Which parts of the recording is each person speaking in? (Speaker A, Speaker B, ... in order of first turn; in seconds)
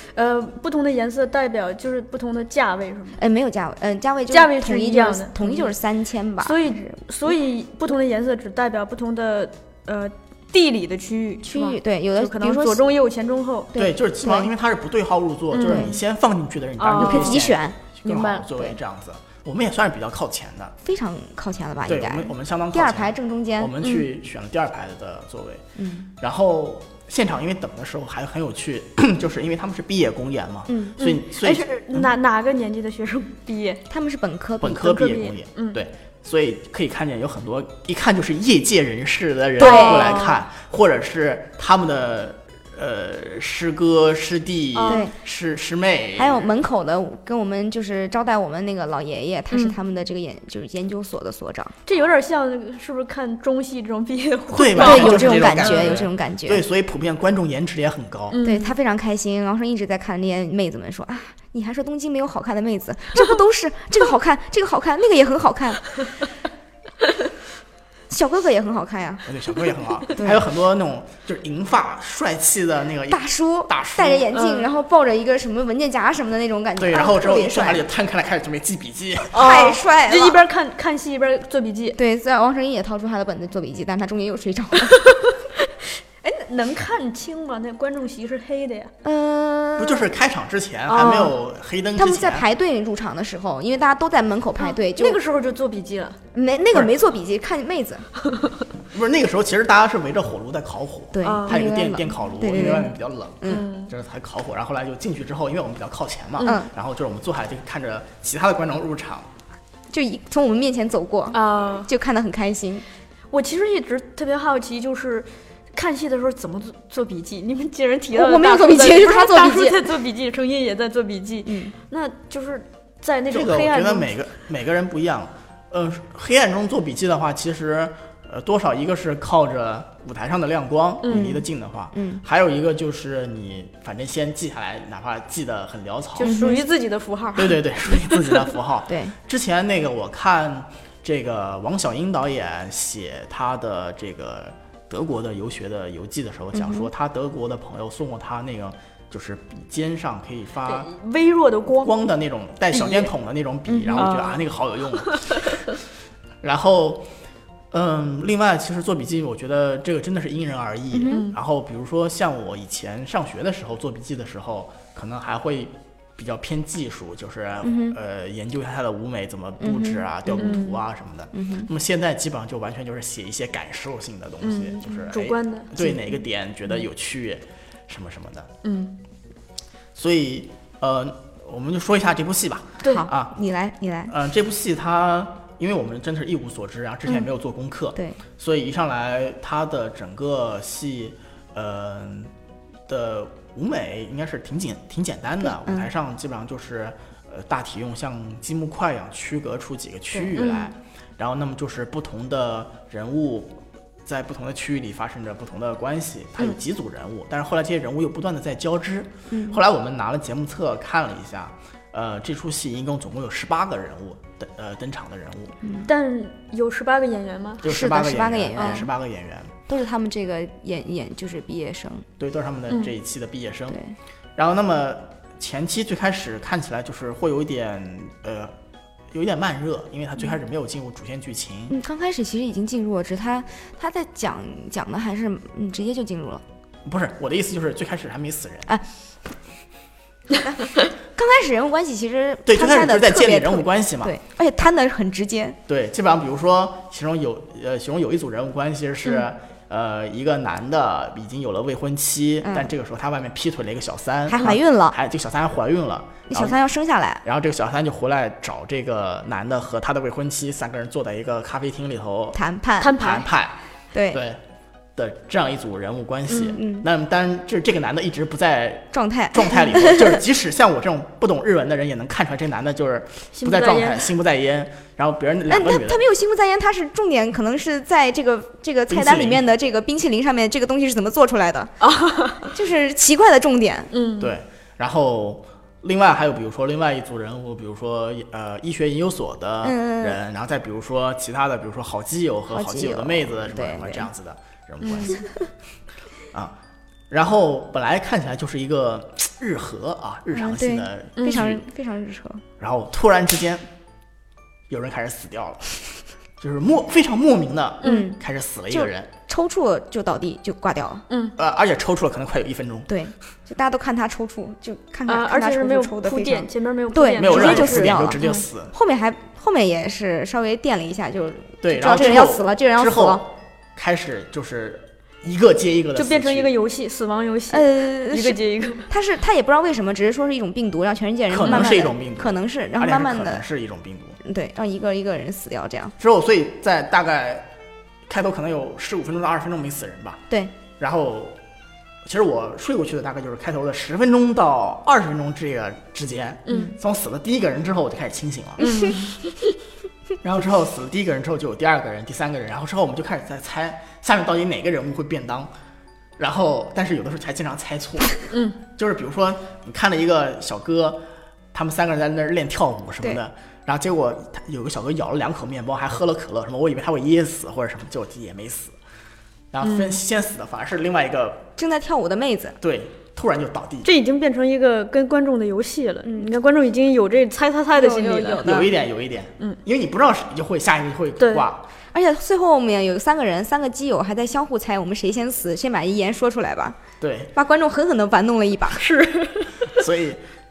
Speaker A: 0.1-3.2, 4.3-5.7, 6.4-13.7, 15.5-15.9, 16.8-17.5, 18.1-18.5, 31.0-33.8, 34.8-35.8, 39.6-40.4, 44.7-45.0, 49.5-49.8, 51.9-56.0, 58.3-58.8, 74.3-74.7, 79.3-82.0, 84.9-85.3, 86.2-88.9, 94.6-96.2, 101.2-101.6, 103.5-103.9, 111.3-111.9, 113.3-124.1, 131.0-131.3, 136.2-137.6, 150.7-151.9, 152.7-153.1, 154.0-154.4, 161.1-161.4, 170.4-170.8, 174.4-175.7, 178.6-179.0, 182.8-183.1, 200.4-200.7, 215.8-217.7, 218.6-218.9, 262.8-263.3, 266.3-266.6, 273.3-274.1, 281.8-282.5, 283.9-284.3, 294.8-295.1, 301.2-301.5, 307.8-308.1, 311.1-311.4, 315.1-318.4, 325.9-328.9, 331.4-331.8, 346.5-346.7, 348.6-349.2, 358.3-358.6, 369.6-370.0, 373.8-378.7, 381.2-381.4, 388.8-389.7
Speaker B: 3.2-7.0, 11.4-12.8, 13.7-14.5, 15.6-16.0, 16.9-17.9, 20.8-23.8, 25.8-26.1, 30.7-31.0, 33.9-34.9, 39.6-40.2, 44.9-45.1, 46.2-51.8, 54.8-56.6, 58.4-66.0, 68.1-69.3, 70.2-70.4, 73.1-77.8, 79.3-80.4, 82.0-85.0, 89.0-90.1, 90.9-91.3, 92.0-95.2, 96.3-98.1, 101.1-103.7, 106.4-106.7, 109.9-112.8, 118.1-119.9, 121.5-121.7, 131.1-132.2, 136.2-136.6, 138.9-139.2, 146.5-146.9, 153.7-154.2, 160.9-161.2, 167.6-168.0, 169.6-170.6, 171.3-171.7, 175.8-176.2, 182.9-184.1, 195.4-195.9, 209.3-209.6, 215.6-215.9, 217.6-218.9, 219.7-222.1, 223.7-223.9, 231.7-236.4, 241.2-245.6, 252.4-252.7, 254.3-255.0, 256.3-257.2, 262.3-263.0, 263.9-264.2, 266.6-266.9, 268.9-270.2, 275.5-281.8, 282.5-283.9, 289.6-290.2, 292.5-294.1, 300.3-302.4, 307.8-311.1, 312.9-318.2, 318.7-323.2, 327.5-333.4, 334.2-335.9, 371.6-372.6, 376.1-376.3, 377.7-378.7, 381.9-386.8, 387.4-388.8
Speaker C: 13.8-20.8, 21.9-25.6, 26.2-32.1, 34.6-46.5, 54.5-58.4, 69.3-74.3, 76.8-79.5, 89.8-92.5, 98.9-109.3, 123.3-136.5, 137.4-150.9, 151.8-155.6, 156.4-157.1, 157.7-178.5, 179.9-183.3, 184.1-192.3, 192.9-215.6, 217.6-219.6, 222.2-223.8, 224.4-228.6, 229.1-231.8, 236.8-238.7, 242.5-244.1, 245.7-256.6, 257.2-262.4, 262.9-263.6, 264.1-264.4, 265.0-276.0, 278.9-279.4, 284.2-295.2, 297.1-301.6, 302.6-303.7, 304.7-309.1, 311.4-312.9, 317.2-318.7, 321.6-326.5, 331.3-334.2, 336.0-337.5, 338.1-340.3, 340.8-341.4, 342.1-348.7, 350.2-355.5, 356.2-368.8, 369.5-371.5, 372.6-373.9, 378.4-381.7, 387.0-387.3, 389.7-390.2